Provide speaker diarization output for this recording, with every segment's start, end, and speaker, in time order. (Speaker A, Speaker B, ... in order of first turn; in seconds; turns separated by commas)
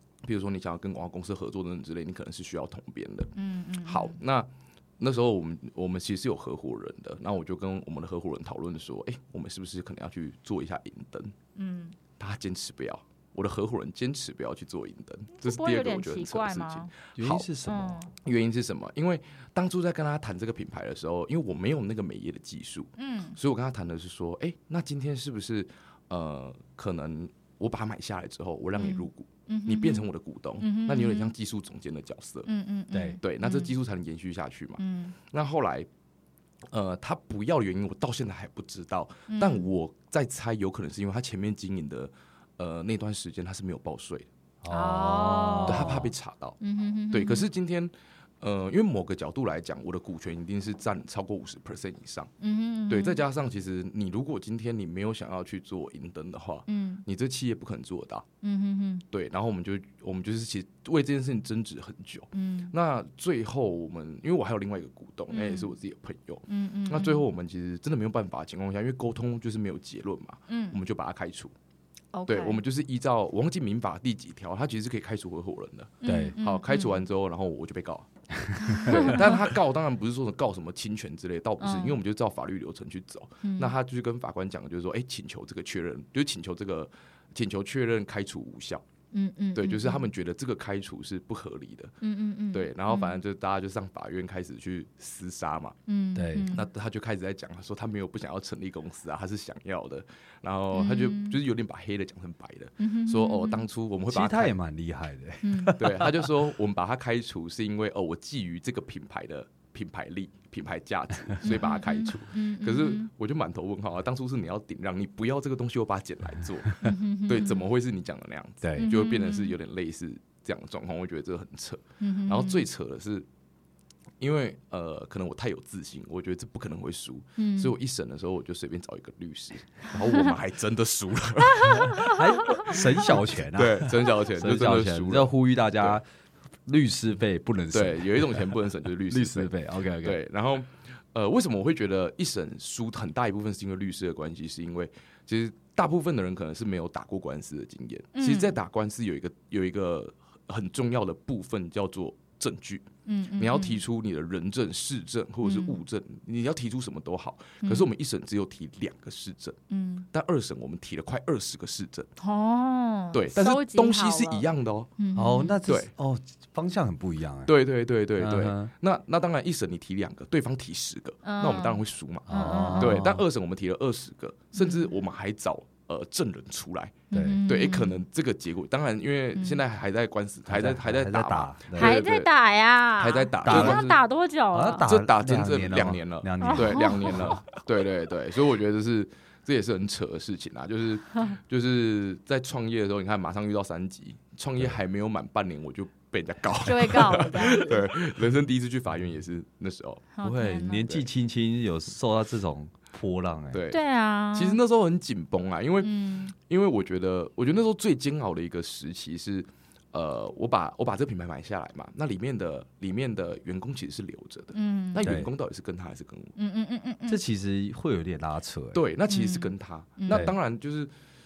Speaker A: 0.2-11.3, Speaker B: 3.4-4.2, Speaker B: 11.6-12.0, Speaker A: 12.2-17.5, Speaker B: 15.3-16.9, Speaker C: 17.2-18.1, Speaker B: 17.7-18.1, Speaker A: 18.2-32.5, Speaker B: 23.0-23.4, Speaker B: 28.8-30.1, Speaker B: 30.6-31.3, Speaker B: 32.5-33.7, Speaker C: 32.9-33.2, Speaker A: 33.2-35.9, Speaker B: 34.8-35.2, Speaker A: 36.7-44.3, Speaker B: 39.3-39.7, Speaker C: 44.6-46.1, Speaker B: 44.7-46.1, Speaker A: 45.6-46.6, Speaker B: 46.6-47.5, Speaker A: 47.1-52.3, Speaker B: 52.4-53.2, Speaker A: 52.9-58.3, Speaker B: 56.7-57.0, Speaker B: 58.4-59.0, Speaker A: 59.1-71.5, Speaker B: 62.3-62.7, Speaker B: 65.3-65.7, Speaker B: 66.5-67.3, Speaker B: 70.5-70.8, Speaker B: 72.1-72.6, Speaker A: 72.3-88.8, Speaker B: 76.0-77.0, Speaker C: 76.0-76.4, Speaker C: 78.4-79.2, Speaker B: 78.7-79.4, Speaker B: 81.6-82.0, Speaker B: 83.4-83.7, Speaker B: 89.1-90.1, Speaker A: 89.5-92.0, Speaker B: 92.0-93.2, Speaker A: 92.5-95.8, Speaker B: 95.9-96.7, Speaker C: 96.2-96.5, Speaker A: 96.5-104.5, Speaker B: 100.7-101.4, Speaker B: 102.8-103.7, Speaker C: 104.1-106.3, Speaker B: 105.4-105.8, Speaker A: 105.7-123.3, Speaker B: 111.4-113.1, Speaker B: 116.8-117.6, Speaker C: 118.6-118.9, Speaker B: 118.8-119.6, Speaker B: 122.0-122.7, Speaker A: 124.2-136.0, Speaker B: 127.4-127.8, Speaker B: 131.6-132.8, Speaker C: 131.9-136.1, Speaker C: 136.7-140.2, Speaker A: 137.7-152.9, Speaker B: 148.2-148.6, Speaker B: 153.1-153.8, Speaker A: 153.4-159.6, Speaker B: 155.4-155.8, Speaker B: 157.6-157.9, Speaker B: 159.7-160.1, Speaker A: 160.1-162.1, Speaker B: 162.2-164.5, Speaker A: 163.1-164.9, Speaker B: 165.0-165.6, Speaker C: 165.2-167.5, Speaker A: 167.5-182.3, Speaker C: 168.2-168.7, Speaker B: 171.2-173.0, Speaker C: 172.3-173.2, Speaker B: 174.6-174.9, Speaker B: 177.1-178.0, Speaker C: 177.1-177.4, Speaker B: 179.4-179.6, Speaker C: 180.5-182.0, Speaker B: 181.8-184.8, Speaker A: 183.0-184.0, Speaker C: 183.4-183.8, Speaker C: 184.5-187.5, Speaker A: 184.8-200.1, Speaker B: 186.4-187.3, Speaker B: 196.6-197.9, Speaker B: 200.2-201.0, Speaker C: 200.2-203.6, Speaker A: 203.5-203.8, Speaker B: 203.7-204.6, Speaker A: 204.3-216.4, Speaker B: 205.8-206.3, Speaker B: 214.5-215.1, Speaker C: 215.0-215.3, Speaker B: 216.4-217.2, Speaker C: 217.1-218.8, Speaker A: 218.7-220.9, Speaker B: 219.1-220.3, Speaker C: 220.1-220.3